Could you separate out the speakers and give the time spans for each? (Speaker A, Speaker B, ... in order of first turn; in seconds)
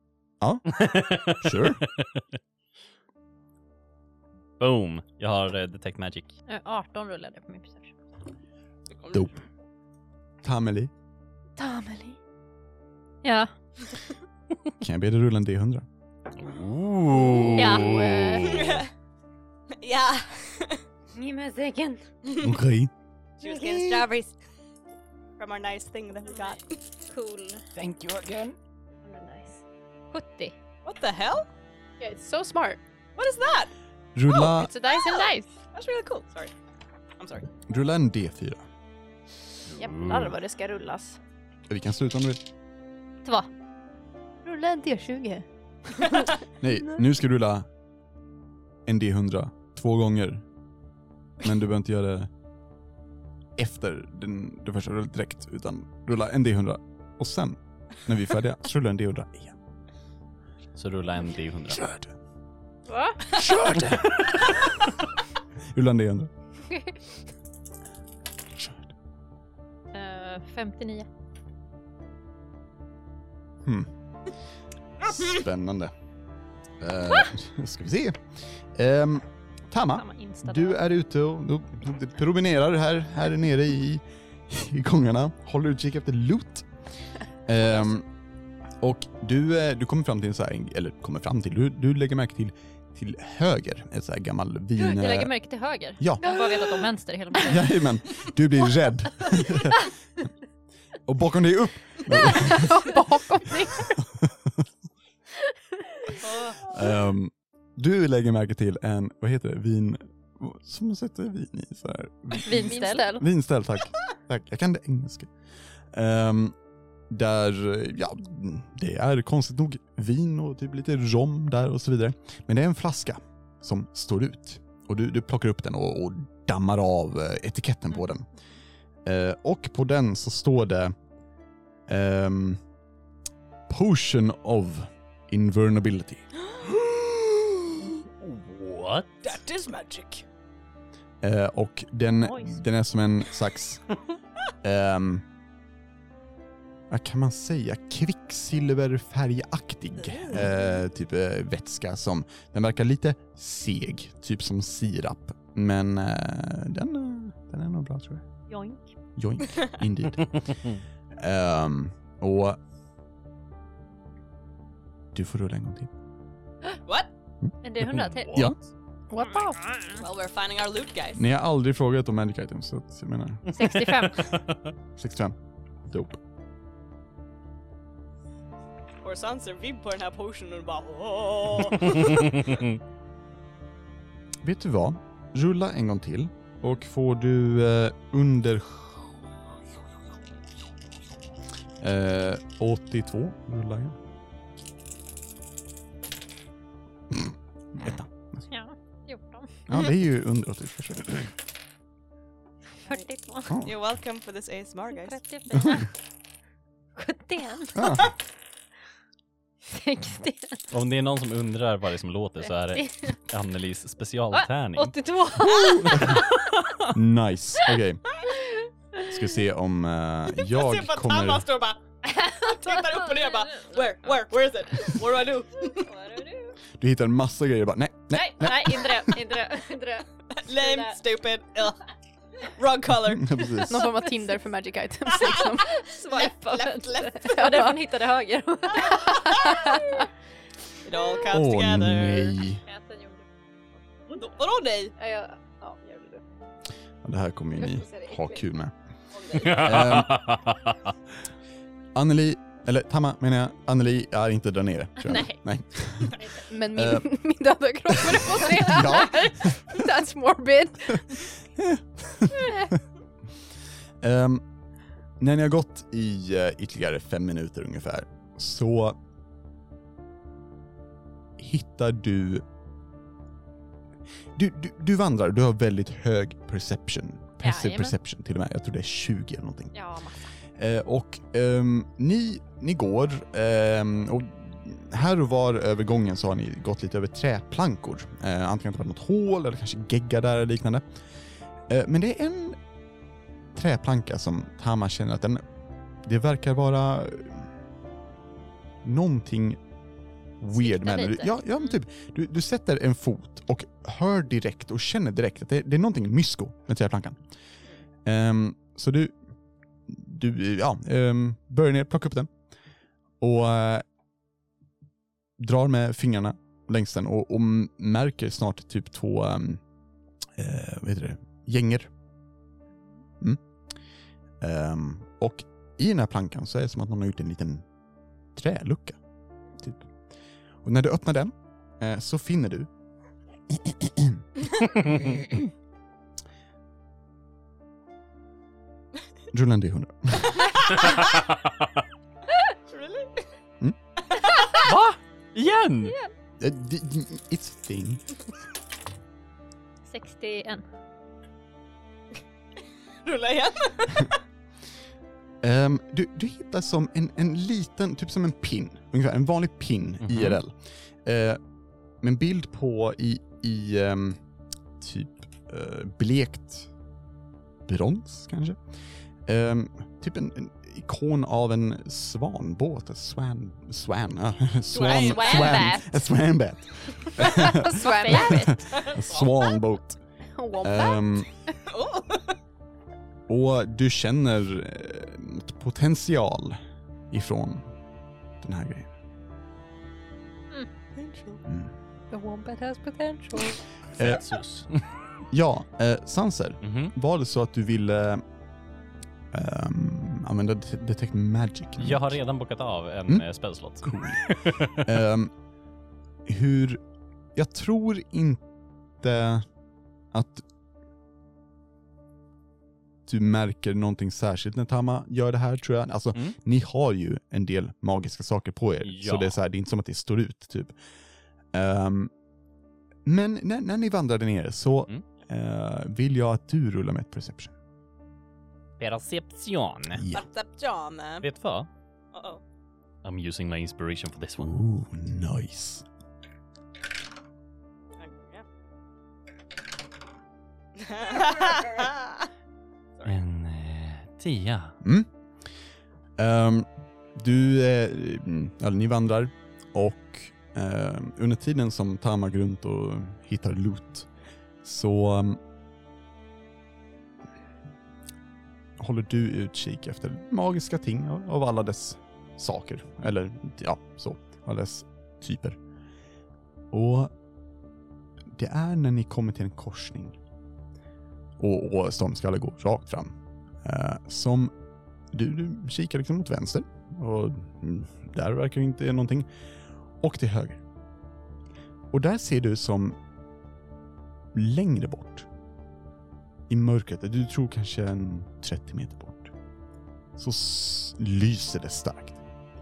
Speaker A: 0.4-0.8, 1.4-1.8, 10.4-10.9, 14.8-15.8, 22.4-22.9, 23.5-24.0, 34.1-34.7, 37.7-38.6, 41.7-42.4, 46.6-47.7, 48.9-50.4, 51.4-52.3, 53.6-59.6, 61.7-62.1, 63.3-64.6, 65.7-66.3, 68.5-68.9, 73.6-73.9, 75.0-75.9, 76.8-86.7, 87.5-88.0, 88.8-95.3, 96.0-96.4, 97.4-99.9, 101.0-102.8, 104.0-104.3, 106.5-115.3, 115.9-116.5, 117.1-128.3, 129.0-130.9, 131.9-132.6, 133.7-136.2, 141.2-143.8, 144.6-145.2, 146.9-158.3, 159.2-160.6, 161.2-162.6, 165.1-165.9, 171.2-173.4, 174.9-175.4, 175.9-176.2, 184.4-189.2, 191.8-194.0, 197.1-198.4, 199.7-201.3, 205.5-205.8, 207.8-208.1, 215.8-216.2, 216.9-218.0, 219.0-221.5, 226.7-229.2, 233.0-233.9, 241.3-242.6, 247.0-248.7, 249.4-250.3, 251.9-257.1, 258.0-259.8, 261.1-262.6, 264.0-264.4, 265.2-269.0, 271.4-272.4, 274.3-279.8, 280.5-290.9, 291.7-292.6, 293.5-295.4, 296.0-297.5, 298.8-299.6, 300.4-307.2, 308.0-309.2, 309.9-312.3, 313.2-313.8, 315.4-319.6, 320.4-321.9, 324.4-327.6, 328.3-329.0, 329.6-329.9, 330.6-332.7, 333.5-334.2, 339.3-340.6, 346.4-348.1, 355.4-361.4, 362.0-364.2, 364.8-366.7, 367.6-368.6, 369.2-380.0, 380.6-381.3, 383.3-386.6, 387.1-387.7, 388.4-388.9, 391.4-391.7, 394.0-394.3, 395.3-398.2, 399.3-402.2, 403.8-404.2, 404.8-405.3, 406.2-406.8, 407.3-408.4, 409.0-409.5, 410.1-410.4, 413.1-420.7, 421.5-422.1, 423.0-427.5, 429.9-430.2, 434.4-435.8, 444.8-445.1, 446.2-454.1, 454.6-455.4, 458.8-465.6, 466.7-467.1, 468.3-470.2, 471.4-474.5, 475.1-479.3, 480.0-480.6, 481.9-483.0, 484.3-485.3, 486.5-489.3, 490.2-492.2
Speaker B: 0.7-2.2, 4.6-6.3, 16.4-18.6, 27.8-28.5, 39.7-40.4, 60.8-61.8, 138.2-139.1, 167.8-168.5, 173.5-174.6, 182.3-182.7, 210.7-214.9, 249.4-250.8, 344.6-345.9, 360.0-360.4, 394.0-394.8, 396.6-396.9, 401.8-405.0, 418.8-419.4, 428.8-430.0, 431.2-431.7, 433.0-434.6, 443.0-444.8
Speaker C: 6.5-8.0, 13.2-13.5, 17.5-18.6, 21.1-22.0, 27.1-27.6, 29.0-30.5, 34.5-35.5, 62.9-63.4, 66.7-66.9, 69.9-71.1, 79.9-80.8, 94.8-97.8, 112.4-113.2, 142.2-142.6, 158.5-158.9, 167.6-168.5, 173.5-174.3, 198.5-199.7, 202.8-203.6, 204.9-205.9, 206.9-208.1, 209.7-210.6, 212.7-213.1, 214.3-216.5, 218.4-219.1, 222.1-224.1, 225.7-226.5, 228.1-231.0, 235.8-240.0, 242.6-243.2, 255.0-255.4, 277.4-277.9, 279.7-280.3, 300.5-301.4, 349.9-350.6, 374.9-376.0, 377.8-378.9
Speaker D: 9.0-9.3, 18.4-18.9, 19.8-20.8, 23.4-24.4, 25.4-26.8, 30.8-31.5, 33.1-33.7, 34.9-36.5, 37.2-37.5, 139.2-140.2, 150.1-150.5, 169.9-171.2, 179.0-182.4, 203.6-205.2, 220.4-221.8, 222.3-225.9, 230.3-231.8, 232.4-233.7, 235.1-237.6, 238.9-239.8, 240.8-242.3, 244.1-244.9, 342.7-343.2, 344.1-344.6, 353.0-354.1, 374.7-375.7, 378.7-379.0, 381.6-382.3, 390.9-391.4, 430.1-431.2, 432.1-432.4, 438.0-438.4, 440.8-442.2
Speaker E: 11.6-12.1, 17.3-18.7, 32.0-32.8, 39.8-41.2, 44.4-46.2, 102.1-104.0, 112.5-113.2, 169.1-169.6, 233.7-235.8, 237.3-237.8, 239.4-239.8, 245.0-246.2, 247.6-248.4, 256.3-261.2, 377.2-378.6, 380.4-381.2, 392.1-393.6